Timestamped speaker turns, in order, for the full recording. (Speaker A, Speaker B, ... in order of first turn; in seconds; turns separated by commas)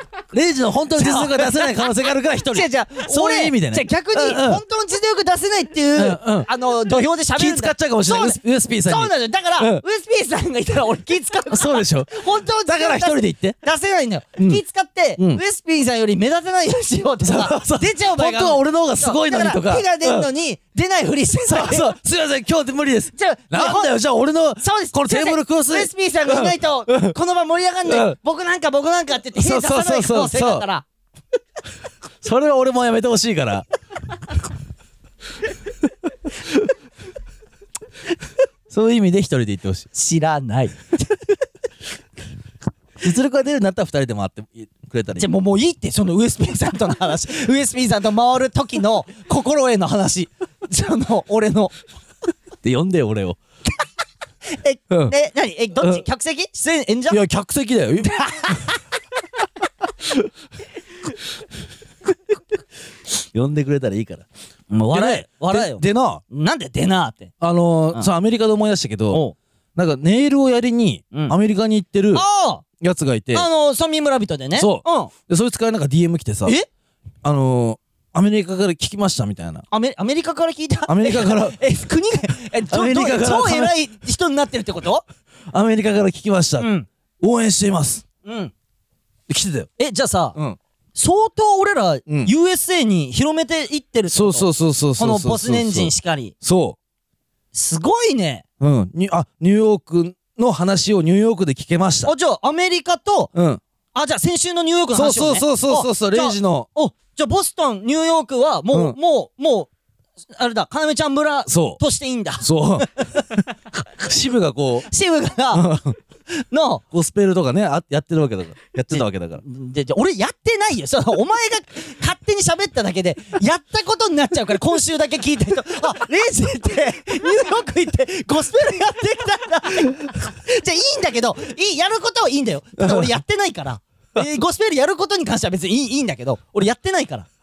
Speaker A: 0.3-4.6, Speaker B: 1.0-1.8, Speaker B: 2.5-21.9, Speaker A: 6.0-6.5, Speaker A: 7.4-9.8, Speaker A: 11.5-13.6, Speaker A: 17.2-20.3, Speaker A: 21.5-27.2, Speaker B: 23.1-23.9, Speaker B: 24.6-30.9, Speaker A: 27.9-28.1, Speaker A: 29.4-30.6, Speaker A: 32.2-33.6, Speaker A: 38.7-39.9, Speaker B: 39.9-41.2, Speaker A: 43.0-45.3, Speaker B: 45.2-51.7, Speaker A: 52.6-53.4, Speaker B: 54.5-57.2, Speaker A: 57.1-58.6, Speaker B: 58.1-58.8, Speaker A: 63.3-64.3, Speaker B: 64.7-67.3, Speaker A: 64.9-66.2, Speaker A: 67.4-69.2, Speaker A: 69.8-72.2, Speaker B: 72.1-72.6, Speaker A: 72.8-73.5, Speaker B: 73.3-75.1, Speaker A: 74.6-76.6, Speaker A: 77.2-79.6, Speaker B: 79.7-85.0, Speaker A: 80.9-81.6, Speaker A: 82.7-83.7, Speaker A: 85.5-86.7, Speaker B: 86.6-86.9, Speaker A: 87.2-88.0, Speaker B: 88.2-88.5, Speaker A: 89.3-89.7, Speaker B: 89.8-90.4, Speaker B: 91.0-96.3, Speaker A: 94.1-96.8, Speaker B: 97.5-98.4, Speaker A: 98.6-102.1, Speaker B: 102.0-103.3, Speaker A: 103.3-103.6, Speaker B: 103.9-109.7, Speaker A: 104.9-106.7, Speaker B: 110.4-113.3, Speaker A: 111.5-111.8, Speaker A: 112.4-113.4, Speaker A: 114.0-114.9, Speaker B: 114.9-115.7, Speaker A: 115.5-116.0, Speaker B: 116.5-116.8, Speaker A: 116.9-119.4, Speaker B: 118.9-137.3, Speaker A: 132.8-133.1